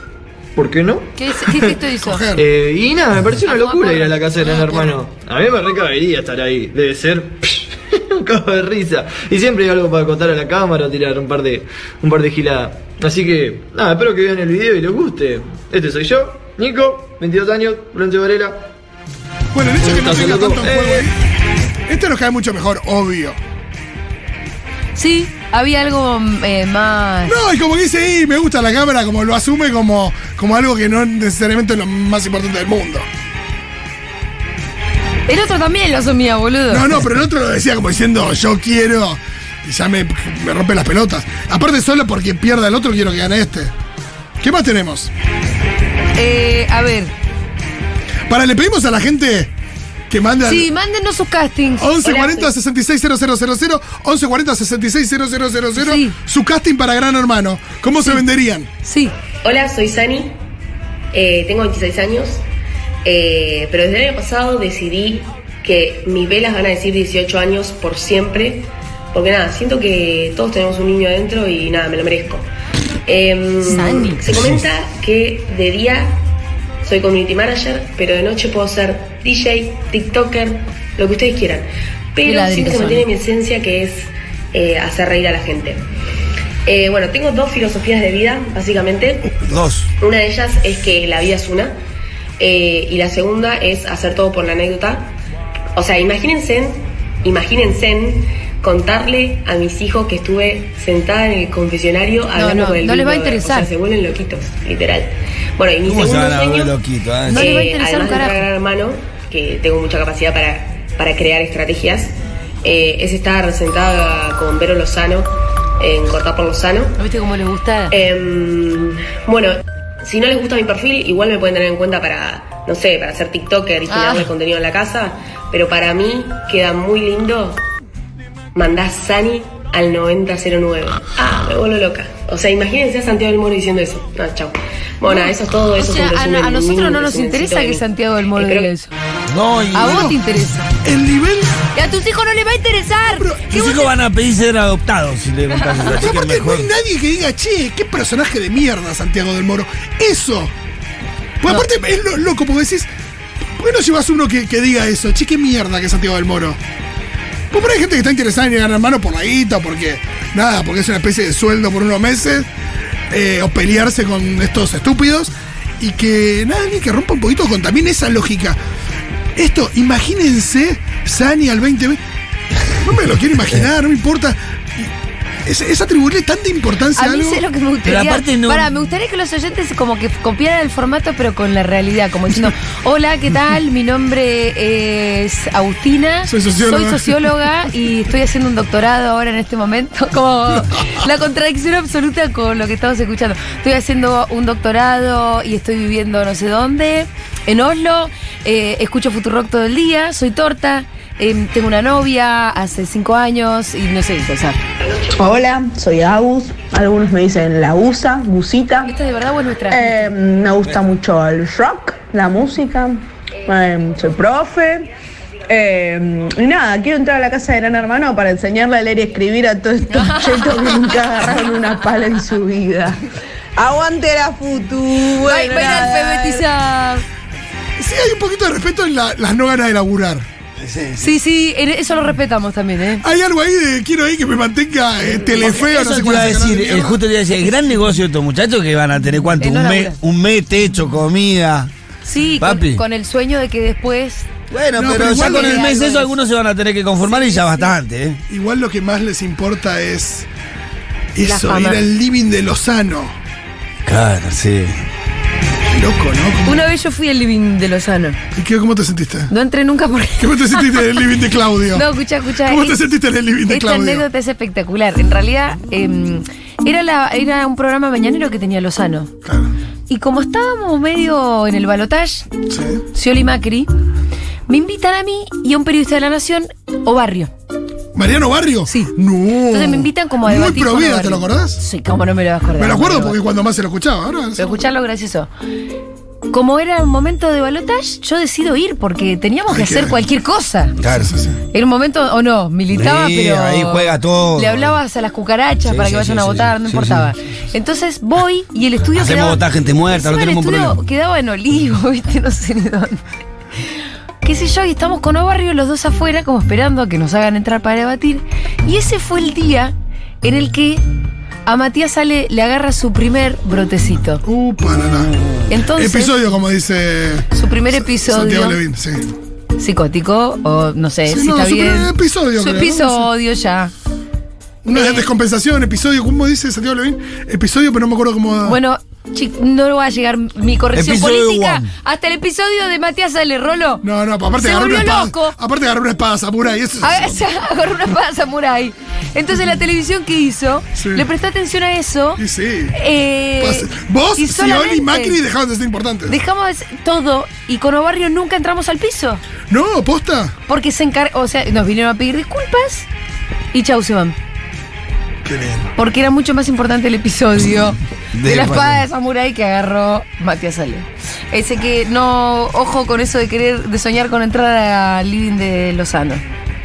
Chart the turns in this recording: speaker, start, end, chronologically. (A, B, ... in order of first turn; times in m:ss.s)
0:00.5-0:01.7 A
0:01.2-0:02.2 B
0:02.0-0:02.4 C
0:02.3-0:18.6 A
0:03.4-0:04.9 B
0:19.5-0:21.1 C
0:19.8-0:21.1 A
0:21.9-0:23.4 C
0:25.0-0:27.4 B
0:27.3-0:33.0 C
0:35.3-0:36.9 B
0:36.7-0:43.7 C
0:44.4-0:45.1 C
0:46.2-0:47.1 B
0:48.3-0:49.5 C
0:50.1-0:50.7 C
0:50.4-0:52.5 B
0:51.8-0:58.7 C
0:55.8-0:56.1 B
0:58.8-0:59.1 B
0:59.4-1:00.3 D
1:01.1-1:02.4 D
1:03.0-1:12.4 D
1:13.1-1:16.2 D
1:13.7-1:14.2 B
1:14.3-1:14.6 E
1:16.8-1:25.8 D
1:22.2-1:23.1 B
1:26.6-1:29.4 D
1:29.4-1:29.9 E
1:30.0-1:31.7 D
1:32.4-1:35.1 D
1:35.7-1:46.7 D
1:42.3-1:43.7 B
1:45.8-1:47.6 E
1:47.3-1:48.4 B
1:47.3-1:56.9 D
1:57.0-1:57.9 B
1:57.9-2:07.6 D
2:03.9-2:04.3 B
2:08.5-2:18.7 D
2:15.0-2:18.9 B
2:19.3-2:20.2 E
2:19.7-2:20.7 B
2:19.8-2:20.2 C
2:20.8-2:21.6 C
2:21.7-2:23.9 B
2:23.1-2:23.5 C
2:23.5-2:26.7 E
2:25.8-2:30.5 C
2:31.4-2:32.9 C
2:33.6-2:36.6 C
2:37.5-2:42.5 C
2:43.1-2:48.6 C
2:49.4-2:52.0 C
2:52.8-2:54.9 C
2:55.4-2:57.4 C
2:56.9-3:24.6 B
2:57.8-2:58.7 E
3:06.3-3:07.3 C
3:25.1-3:28.9 F
3:28.8-3:30.1 B
3:29.7-3:34.9 F
3:35.5-3:43.0 F
3:39.9-3:41.0 B
3:43.6-3:46.4 F
3:45.2-3:47.0 B
3:47.8-3:50.2 C
3:50.6-3:51.2 E
3:51.0-3:53.0 B
3:53.0-3:57.0 C
3:55.0-4:01.7 E
3:59.4-4:00.0 B
4:02.0-4:04.3 B
4:02.4-4:02.8 E
4:04.5-4:08.2 E
4:04.7-4:05.8 C
4:04.9-4:06.1 B
4:07.0-4:07.7 B
4:08.3-4:10.3 C
4:11.1-4:13.2 C
4:11.2-4:11.8 B
4:13.8-4:14.8 E
4:15.7-4:16.7 C
4:16.4-4:18.2 B
4:18.3-4:19.3 C
4:19.3-4:21.0 B
4:20.2-4:21.8 C
4:21.7-4:22.9 B
4:22.4-4:24.0 C
4:23.5-4:29.1 B
4:29.2-4:29.5 C
4:29.9-4:32.3 B
4:32.5-4:32.8 C
4:32.9-4:33.7 B
4:34.5-4:37.3 B
4:37.9-4:41.6 C
4:38.7-4:38.9 B
4:39.5-4:43.2 B
4:42.6-4:44.5 C
4:44.4-4:45.3 B
4:46.3-4:50.8 B
4:49.5-4:50.0 C
4:50.8-4:51.1 E
4:50.9-4:51.4 C
4:51.5-5:03.0 B
4:52.7-4:54.8 E
4:55.6-4:57.1 E
4:58.9-5:00.8 E
5:04.2-5:10.8 B
5:11.4-5:14.2 B
5:14.2-5:15.1 C
5:15.5-5:16.2 B
5:15.7-5:19.1 C
5:17.3-5:18.6 B
5:19.6-5:23.7 B
5:21.1-5:23.1 C
5:24.6-5:28.6 C
5:24.7-5:25.1 B
5:28.4-5:33.8 B
5:30.7-5:31.7 E
5:33.8-5:37.2 C
5:34.3-5:35.4 B
5:36.8-5:42.2 B
5:40.8-5:41.0 C
5:42.2-5:42.7 C
5:42.7-5:45.2 B
5:43.4-5:46.2 C
5:46.1-5:49.2 B
5:49.5-5:50.3 C
5:50.5-5:52.9 B
5:53.5-5:54.2 B
5:55.2-5:55.7 C
5:55.8-6:06.2 B
5:58.1-5:58.8 E